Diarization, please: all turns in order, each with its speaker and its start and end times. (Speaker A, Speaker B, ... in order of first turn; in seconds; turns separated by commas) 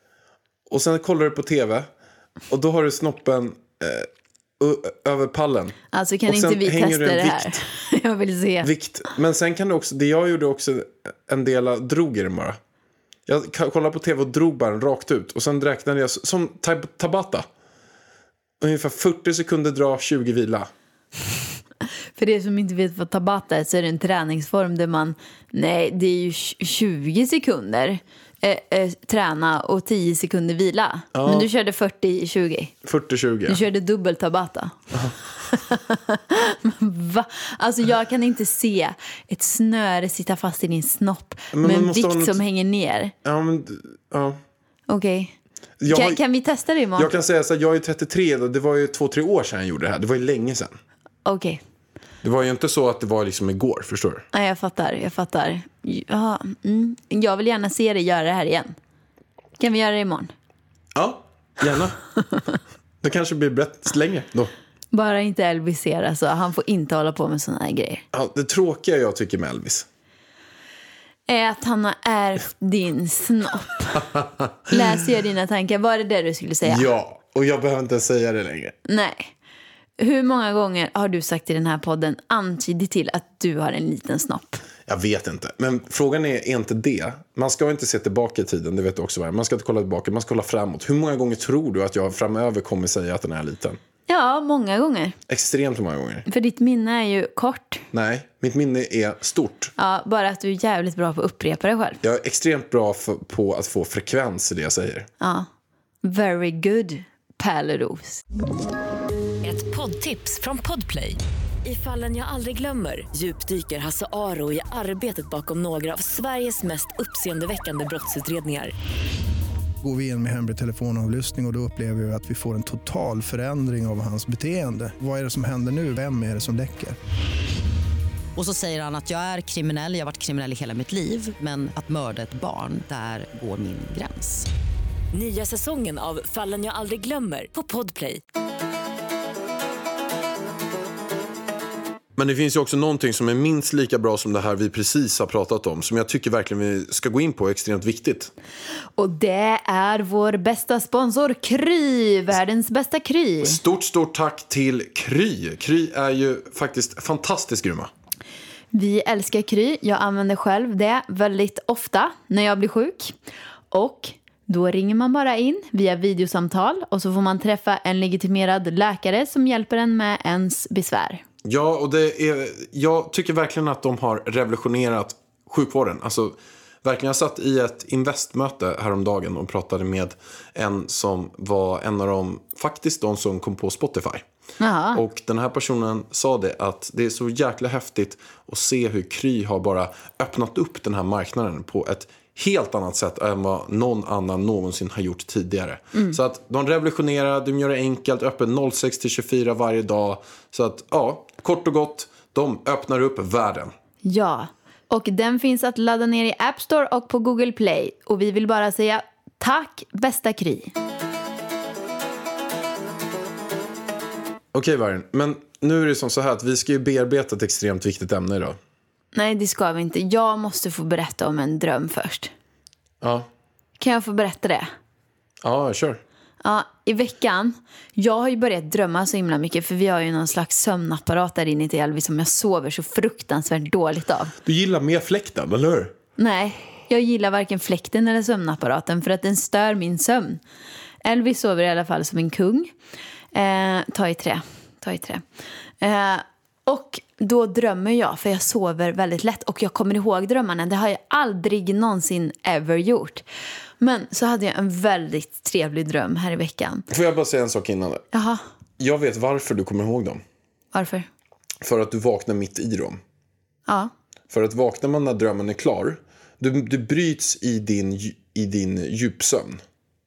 Speaker A: 0.7-1.9, Speaker A: 2.5-7.6, Speaker B: 5.9-8.7, Speaker A: 8.6-12.6, Speaker A: 13.3-17.5, Speaker A: 18.6-20.7, Speaker B: 22.2-32.7, Speaker A: 31.1-31.5, Speaker A: 32.8-33.6, Speaker B: 33.5-34.8, Speaker B: 35.5-43.1, Speaker A: 41.5-42.4, Speaker A: 43.2-44.4, Speaker B: 44.9-45.3, Speaker A: 45.8-46.2, Speaker B: 45.9-47.1, Speaker A: 47.0-50.8, Speaker B: 51.2-51.6, Speaker A: 52.2-54.3, Speaker B: 54.3-58.8, Speaker B: 59.6-60.3, Speaker A: 60.9-62.0, Speaker A: 63.0-64.5, Speaker B: 64.9-68.0, Speaker A: 68.1-69.9, Speaker B: 71.3-74.1, Speaker A: 74.1-74.8, Speaker B: 74.7-76.9, Speaker A: 76.6-78.8, Speaker B: 78.9-79.3, Speaker B: 80.0-84.6, Speaker A: 84.9-93.8, Speaker B: 94.1-95.2, Speaker A: 95.3-96.3, Speaker B: 96.3-97.8, Speaker A: 97.9-99.7, Speaker B: 99.8-102.0, Speaker A: 102.0-105.1, Speaker B: 105.2-105.5, Speaker B: 106.0-108.2, Speaker C: 109.4-118.7, Speaker D: 119.8-127.0, Speaker E: 128.4-134.5, Speaker C: 135.1-138.2, Speaker A: 142.2-148.3, Speaker B: 149.0-153.6, Speaker A: 153.4-157.9, Speaker B: 158.7-163.2, Speaker B: 163.7-171.2, Speaker A: 171.4-184.2, Speaker B: 184.6-185.0, Speaker A: 184.9-203.7, Speaker B: 204.1-210.7, Speaker A: 214.5-218.6, Speaker B: 219.1-222.3, Speaker A: 223.0-223.3, Speaker B: 223.8-224.7, Speaker A: 225.4-226.0, Speaker B: 226.4-234.3, Speaker A: 234.4-235.9, Speaker B: 236.2-240.4, Speaker B: 241.0-242.7, Speaker B: 243.3-245.2, Speaker B: 245.8-253.2, Speaker B: 253.8-256.9, Speaker A: 256.9-258.0, Speaker B: 258.1-258.4, Speaker A: 258.8-260.2, Speaker B: 260.7-261.1, Speaker A: 261.6-263.0, Speaker A: 264.3-269.6